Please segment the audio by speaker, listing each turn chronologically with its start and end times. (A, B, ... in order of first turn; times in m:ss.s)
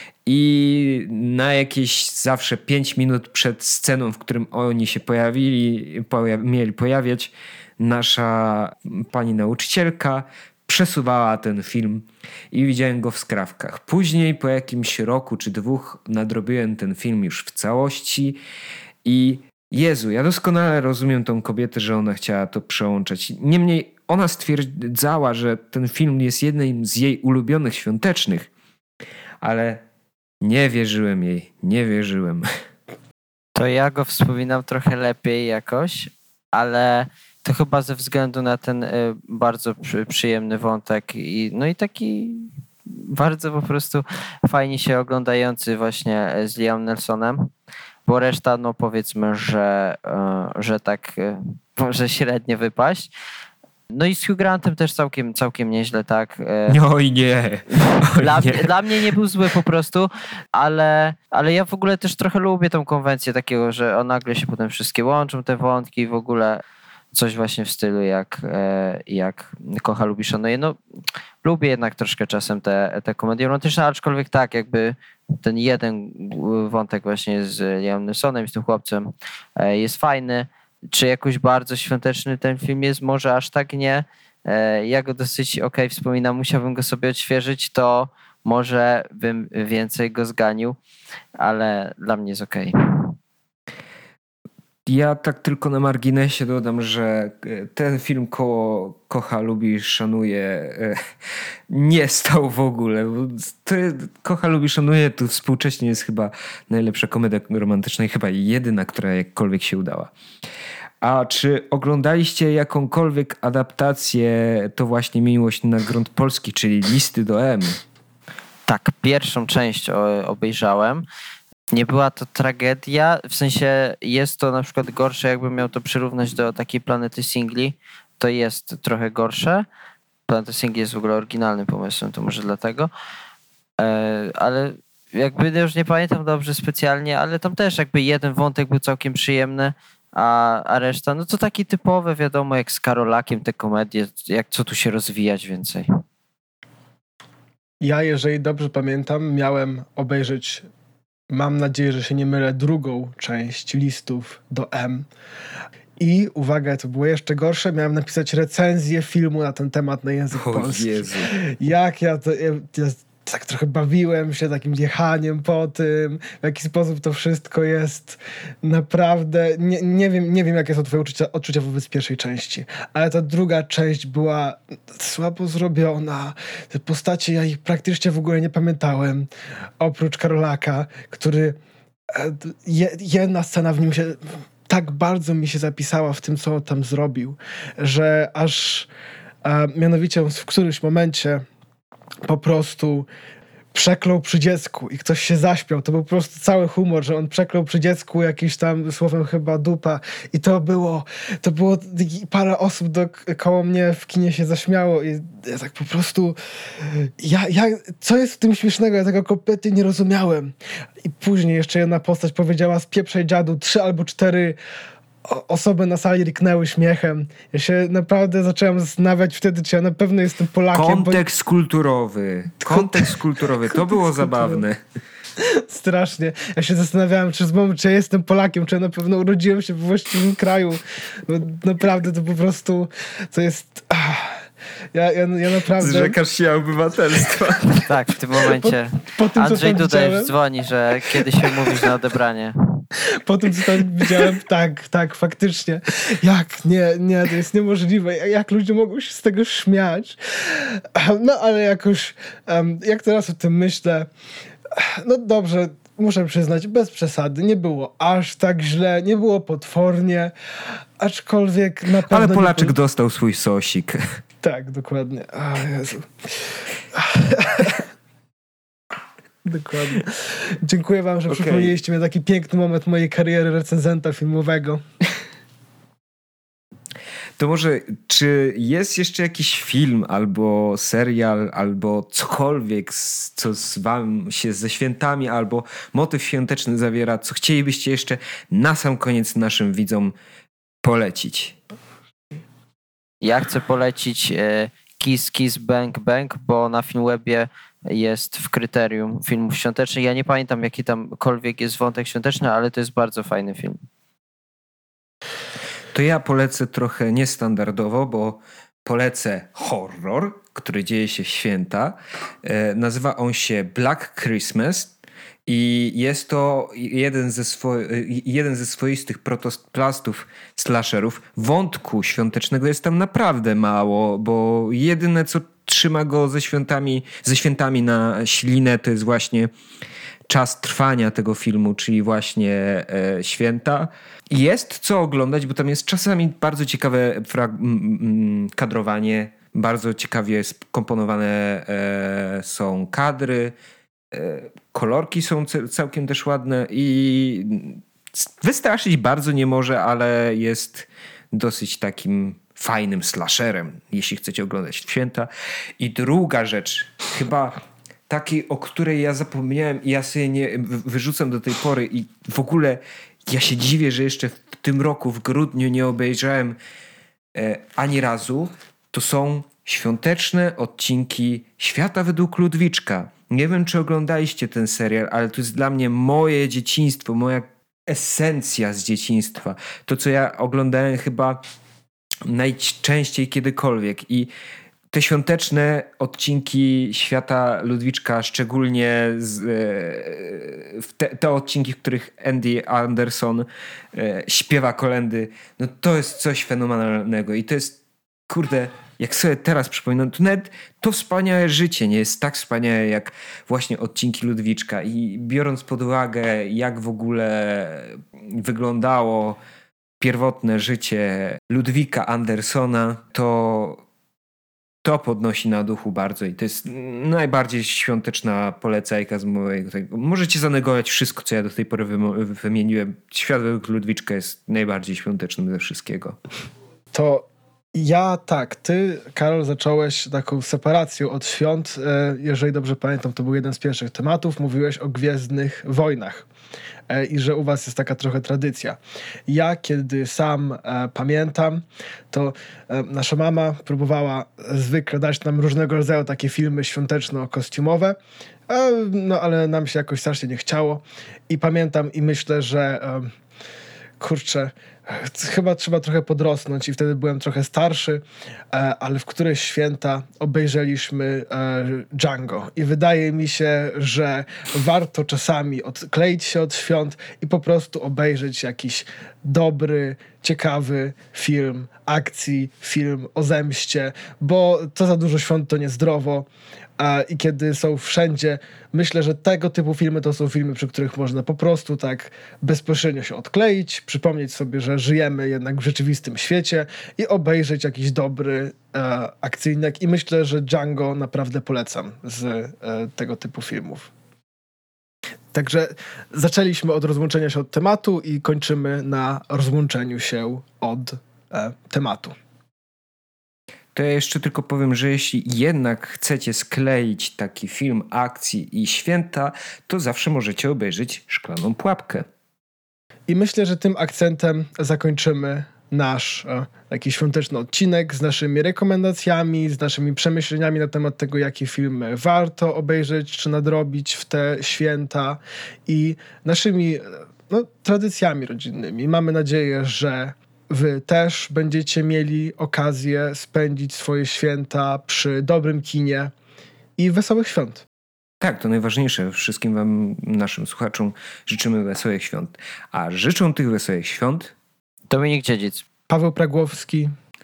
0:00.2-0:18.4 A
0:19.0-0:28.5 A
0:29.4-0:29.8 A
0:30.4-0:32.4 A
0:33.6-0:47.5 B
0:48.0-0:53.1 B
0:53.9-0:56.8 B
0:56.7-0:58.7 A
0:57.8-1:06.6 B
1:07.1-1:10.8 B
1:11.4-1:30.8 B
1:31.4-1:33.2 B
1:34.8-1:41.0 A
1:41.7-1:50.1 A
1:51.0-1:57.8 A
1:58.7-2:01.0 B
2:01.7-2:09.6 B
2:10.3-2:12.9 B
2:13.8-2:25.9 B
2:27.8-2:30.6 C
2:31.3-2:35.1 C
2:36.0-2:59.3 C
2:40.3-2:41.3 A
2:59.8-3:01.6 C
3:02.1-3:08.9 C
3:09.4-3:11.4 C
3:12.2-3:13.1 C
3:13.7-3:34.6 C
3:35.2-3:41.2 C
3:40.7-3:44.8 A
3:42.7-3:43.2 C
3:43.8-3:44.6 C
3:45.4-3:54.4 C
3:54.9-3:56.2 C
3:55.8-3:57.9 A
3:57.8-4:02.8 B
3:58.4-4:00.3 C
4:03.1-4:14.1 C
4:14.7-4:20.3 C
4:21.0-4:22.8 C
4:22.1-4:24.0 A
4:24.4-4:26.1 C
4:26.9-4:27.8 C
4:29.4-4:34.8 C
4:31.3-4:31.7 A
4:37.4-4:50.1 A
4:50.8-4:51.6 A
4:53.2-5:03.8 B
5:05.9-5:14.9 A
5:15.4-5:29.5 A
5:30.3-5:43.5 A
5:44.1-6:06.6 A
6:07.3-6:21.4 A
6:22.2-6:24.3 A
6:24.9-6:49.4 A
6:50.0-6:53.8 A
6:54.8-7:06.2 A
7:06.9-7:16.2 C
7:16.9-7:28.0 C
7:28.5-7:33.1 C
7:34.0-7:56.3 C
7:56.8-8:13.9 C
8:15.3-8:22.1 C
8:23.7-8:32.0 A
8:33.1-8:56.1 C
8:56.8-8:57.6 C
8:58.2-9:04.3 A
9:04.9-9:05.6 B
9:05.9-9:06.9 C